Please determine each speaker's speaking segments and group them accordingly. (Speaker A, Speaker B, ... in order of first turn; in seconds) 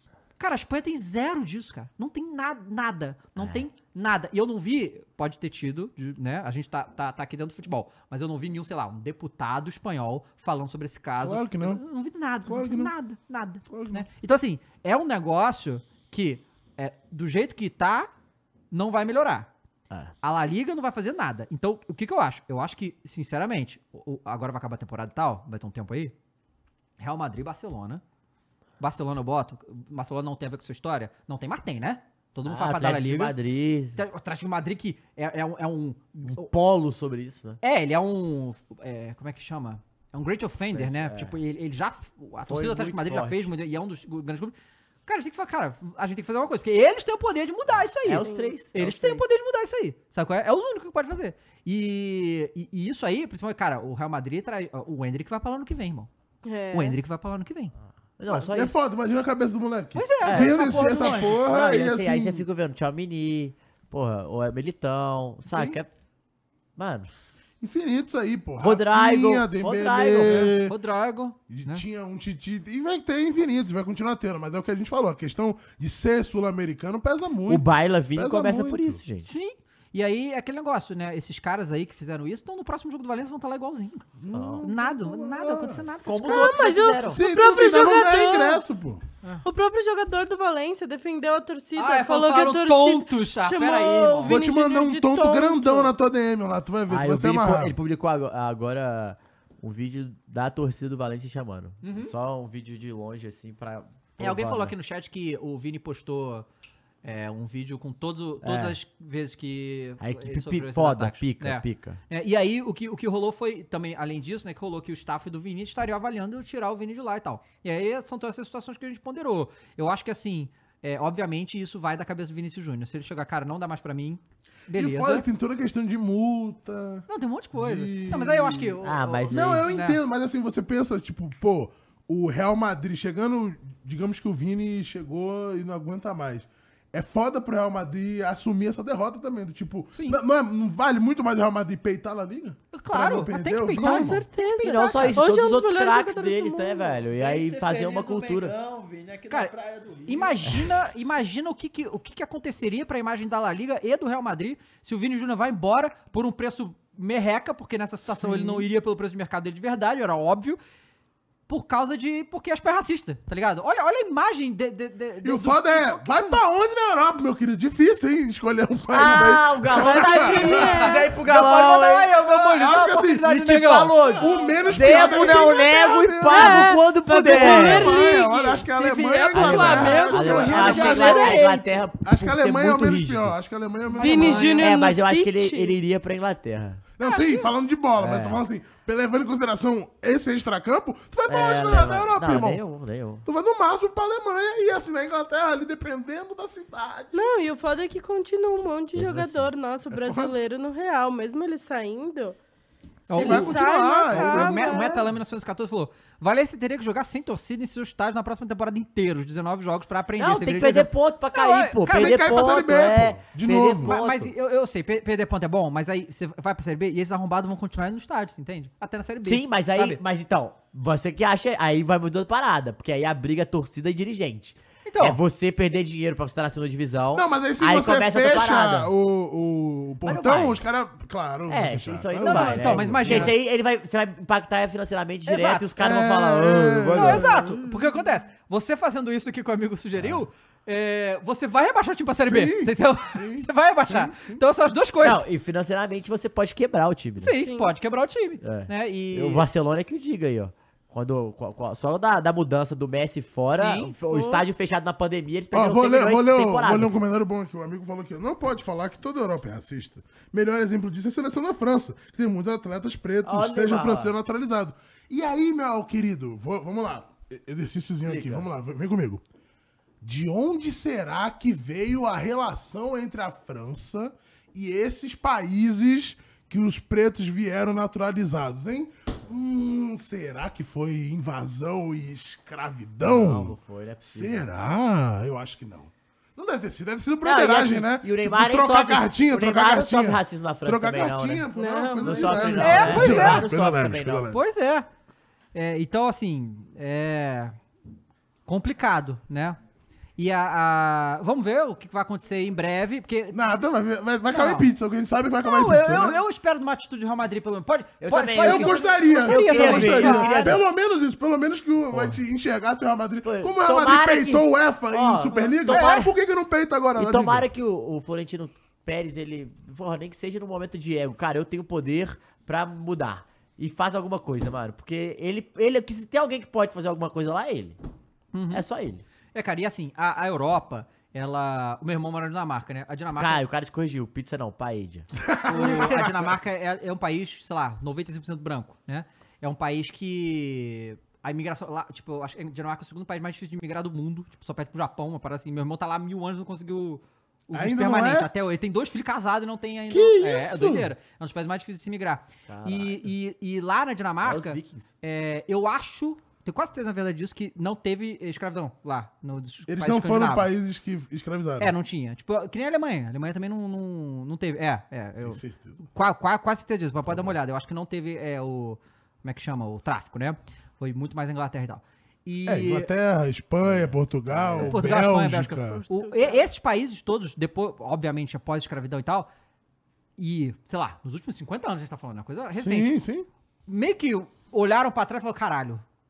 Speaker A: 0.4-18.1, 18.7-19.5, 20.2-26.1, 27.0-28.0, 28.8-33.4, 34.0-36.5, 37.6-44.5, 45.1-56.1, 56.7-57.7, 60.0-61.4, 65.5-65.8, 70.2-71.8, 79.2-84.1, 84.6-86.6, 91.8-94.4, 101.8-102.1, 104.2-106.5, 107.0-125.3, 127.1-130.0, 142.7-145.2, 150.1-160.6, 161.5-166.4, 170.3-175.1, 178.7-181.5, 183.9-184.8, 187.0-187.5, 203.1-212.2, 213.8-220.0, 224.9-225.2, 232.2-233.3, 235.3-235.7, 237.0-245.2, 247.2-249.4, 253.5-253.9, 292.6-293.5, 294.3-294.9, 295.5-297.6, 298.5-299.6, 300.2-303.4, 304.3-304.7, 305.4-310.6, 315.7-316.1, 328.3-328.6, 329.3-333.4, 335.5-360.5, 361.6-372.9, 374.6-379.3, 380.2-382.9, 383.7-385.8
Speaker B: 3.4-3.6, 32.5-34.0, 36.3-37.6, 40.7-41.4, 42.4-43.5, 48.0-49.2, 58.2-58.8, 60.2-65.9, 66.8-67.1, 68.6-70.5, 77.5-79.3, 84.3-84.7, 86.1-87.2, 96.9-104.7, 108.4-108.8, 110.0-112.0, 128.8-129.7, 144.6-148.6, 168.9-172.2, 173.2-178.0, 179.3-183.4, 184.6-186.8, 188.0-188.4, 191.3-193.2, 198.9-199.5, 210.2-214.3, 219.2-228.9, 230.0-230.6, 231.5-237.5, 240.0-240.2, 245.0-247.4, 248.4-257.0, 263.2-264.2, 268.0-268.5, 283.0-284.4, 287.2-291.5, 292.0-294.3, 308.0-310.6, 311.9-312.2, 313.2-316.1, 317.0-327.8, 328.5-329.0, 333.1-336.0, 352.5-353.1, 354.2-354.9, 373.6-375.0
Speaker C: 11.2-11.8, 12.4-12.9, 13.7-14.1, 58.3-62.4, 67.6-70.8, 71.5-79.0, 84.2-85.8, 87.1-89.0, 94.2-97.8, 124.8-128.8, 129.3-144.2, 158.1-158.7, 165.2-170.8, 172.2-173.2, 174.2-184.6, 187.0-192.6, 193.2-197.1, 199.9-200.3, 203.2-205.0, 211.9-214.1, 227.1-233.4, 235.8-237.5, 242.2-244.4, 255.5-269.2, 270.0-294.4, 303.3-306.2, 308.4-317.4, 335.2-336.1, 347.5-348.3, 349.9-350.9, 359.7-361.7, 365.2-365.8, 367.1-367.3, 372.5-375.8, 382.6-383.3
Speaker D: 48.2-48.5, 56.5-57.0, 86.3-88.6, 89.4-95.9, 143.8-147.0, 169.8-171.1, 175.0-178.7, 184.0-185.8, 197.1-202.4, 203.1-205.1, 247.4-247.7, 254.1-254.4, 291.5-292.6, 375.9-376.5
Speaker E: 147.1-150.7